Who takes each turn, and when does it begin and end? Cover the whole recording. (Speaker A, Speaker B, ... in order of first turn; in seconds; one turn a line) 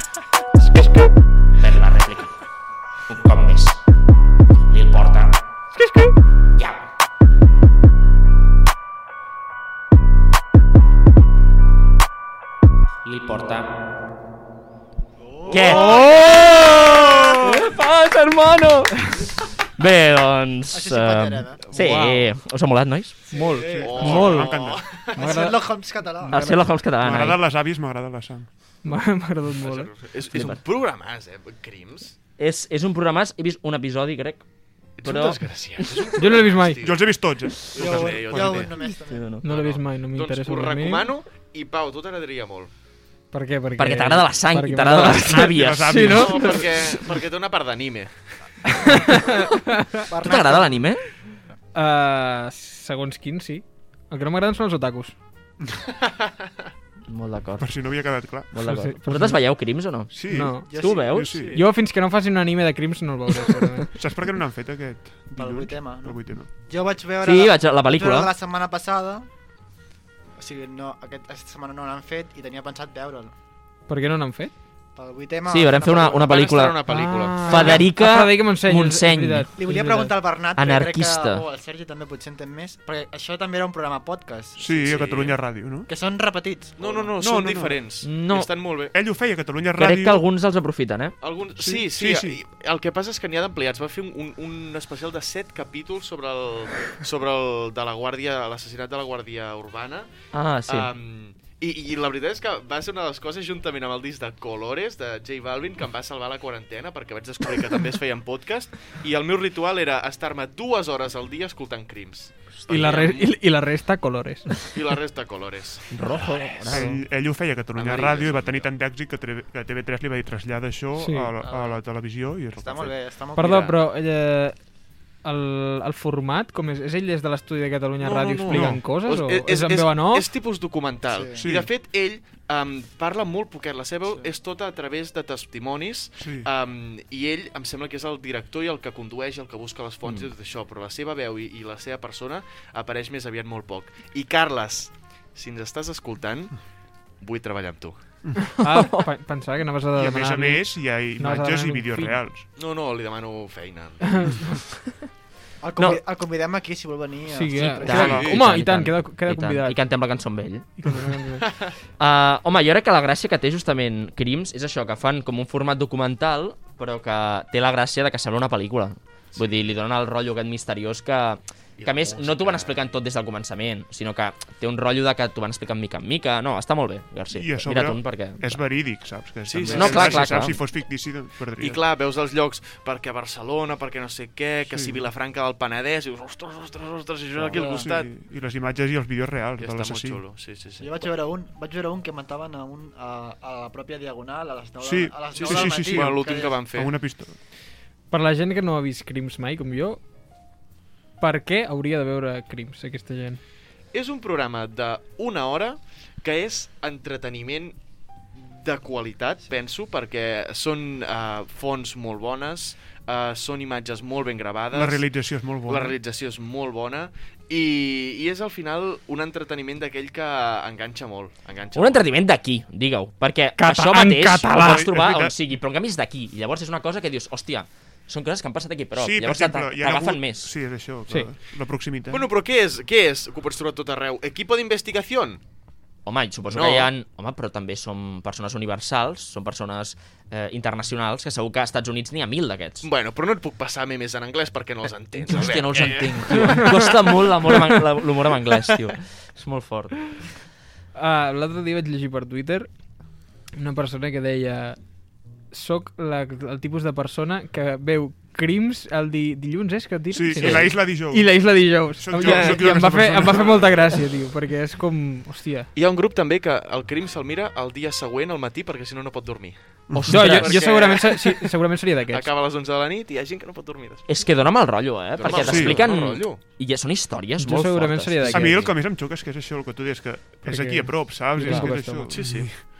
Speaker A: 0.6-1.1
Speaker B: 1.6-2.4
Speaker B: 3.1-3.8
Speaker B: 4.7-5.4
Speaker A: 5.8-6.1
Speaker B: 6.5-6.8
Speaker B: 13.0-13.7
Speaker C: 15.2-17.4
Speaker B: 15.5-23.2
Speaker A: 15.6-16.4
Speaker C: 20.7-21.6
Speaker A: 21.7-22.3
Speaker C: 23.3-24.3
Speaker A: 23.3-24.6
Speaker D: 23.8-25.5
Speaker E: 23.9-25.0
Speaker C: 25.1-26.5
Speaker A: 25.1-25.6
Speaker A: 26.3-26.6
Speaker B: 26.3-27.4
Speaker E: 27.0-28.5
Speaker A: 28.8-29.9
Speaker D: 29.6-32.1
Speaker B: 30.3-30.6
Speaker B: 32.4-34.4
Speaker D: 35.0-37.2
Speaker B: 35.0-36.1
Speaker A: 36.2-36.8
Speaker E: 36.8-38.7
Speaker D: 37.7-38.8
Speaker C: 37.7-39.4
Speaker B: 38.8-39.4
Speaker A: 39.4-41.0
Speaker D: 39.4-42.7
Speaker A: 43.3-46.6
Speaker B: 43.8-46.1
Speaker E: 45.3-46.6
Speaker D: 46.1-48.7
Speaker A: 48.7-50.0
Speaker C: 50.1-50.9
Speaker B: 50.2-51.0
Speaker A: 51.7-55.1
Speaker B: 57.1-57.7
Speaker E: 57.6-58.5
Speaker B: 58.5-60.1
Speaker A: 58.6-59.4
Speaker E: 60.1-61.6
Speaker A: 60.3-60.6
Speaker C: 60.5-61.5
Speaker B: 60.7-61.4
Speaker A: 61.5-63.9
Speaker E: 64.0-66.5
Speaker C: 65.3-69.3
Speaker B: 67.2-68.3
Speaker C: 70.4-73.3
Speaker A: 73.9-74.5
Speaker C: 75.0-76.2
Speaker B: 75.5-76.8
Speaker D: 75.8-77.8
Speaker A: 76.9-80.1
Speaker B: 77.4-79.5
Speaker C: 79.6-85.0
Speaker B: 80.5-81.4
Speaker E: 84.6-85.9
Speaker D: 84.8-85.3
Speaker C: 85.9-87.1
Speaker D: 86.8-88.9
Speaker E: 87.2-87.8
Speaker B: 88.0-88.5
Speaker E: 88.9-90.2
Speaker B: 89.8-91.1
Speaker D: 91.2-100.1
Speaker E: 91.6-92.4
Speaker B: 100.3-100.9
Speaker D: 100.7-113.3
Speaker A: 112.7-114.6
Speaker D: 114.7-116.2
Speaker B: 115.9-117.0
Speaker E: 116.6-122.9
Speaker D: 117.8-118.7
Speaker A: 121.0-121.3
Speaker C: 121.4-121.8
Speaker C: 122.6-123.7
Speaker A: 123.3-124.5
Speaker A: 125.2-130.2
Speaker D: 128.0-146.7
Speaker E: 128.5-128.8
Speaker C: 131.1-131.4
Speaker E: 131.4-131.7
Speaker E: 136.2-136.5
Speaker B: 140.0-140.3
Speaker D: 147.2-148.0
Speaker A: 148.6-152.2
Speaker B: 148.7-149.1
Speaker E: 149.9-152.5
Speaker D: 152.6-154.4
Speaker A: 154.2-154.5
Speaker C: 155.6-157.8
Speaker A: 157.3-159.8
Speaker D: 157.7-158.4
Speaker B: 157.8-160.7
Speaker E: 157.8-158.3
Speaker A: 160.8-161.4
Speaker B: 162.0-178.6
Speaker D: 171.8-172.9
Speaker E: 177.3-181.8
Speaker D: 179.5-180.4
Speaker B: 179.7-180.5
Speaker D: 181.6-188.1
Speaker E: 184.7-185.0
Speaker E: 187.4-190.2
Speaker C: 187.4-187.9
Speaker D: 189.6-191.1
Speaker C: 190.8-196.6
Speaker E: 194.8-197.4
Speaker D: 195.3-196.9
Speaker A: 198.1-200.0
Speaker A: 201.2-203.4
Speaker D: 203.9-207.8
Speaker D: 208.3-222.0
Speaker E: 214.7-215.9
Speaker B: 221.7-230.5
Speaker A: 223.6-224.9
Speaker E: 224.5-225.4
Speaker E: 228.9-232.3
Speaker D: 232.1-235.4
Speaker B: 236.1-242.9
Speaker D: 236.5-236.9
Speaker D: 242.8-247.0
Speaker B: 245.1-250.2
Speaker A: 246.3-246.7
Speaker A: 250.9-252.7
Speaker A: 253.6-254.8
Speaker A: 255.5-265.7
Speaker E: 260.1-263.8
Speaker D: 262.2-262.6
Speaker D: 263.2-263.6
Speaker D: 265.7-271.5
Speaker E: 269.9-270.6
Speaker B: 270.0-270.5
Speaker A: 270.1-272.3
Speaker D: 272.1-274.1
Speaker B: 274.1-278.7
Speaker D: 275.1-276.4
Speaker E: 275.2-275.9
Speaker A: 277.4-278.6
Speaker E: 278.2-282.6
Speaker A: 280.4-282.1
Speaker D: 282.1-282.5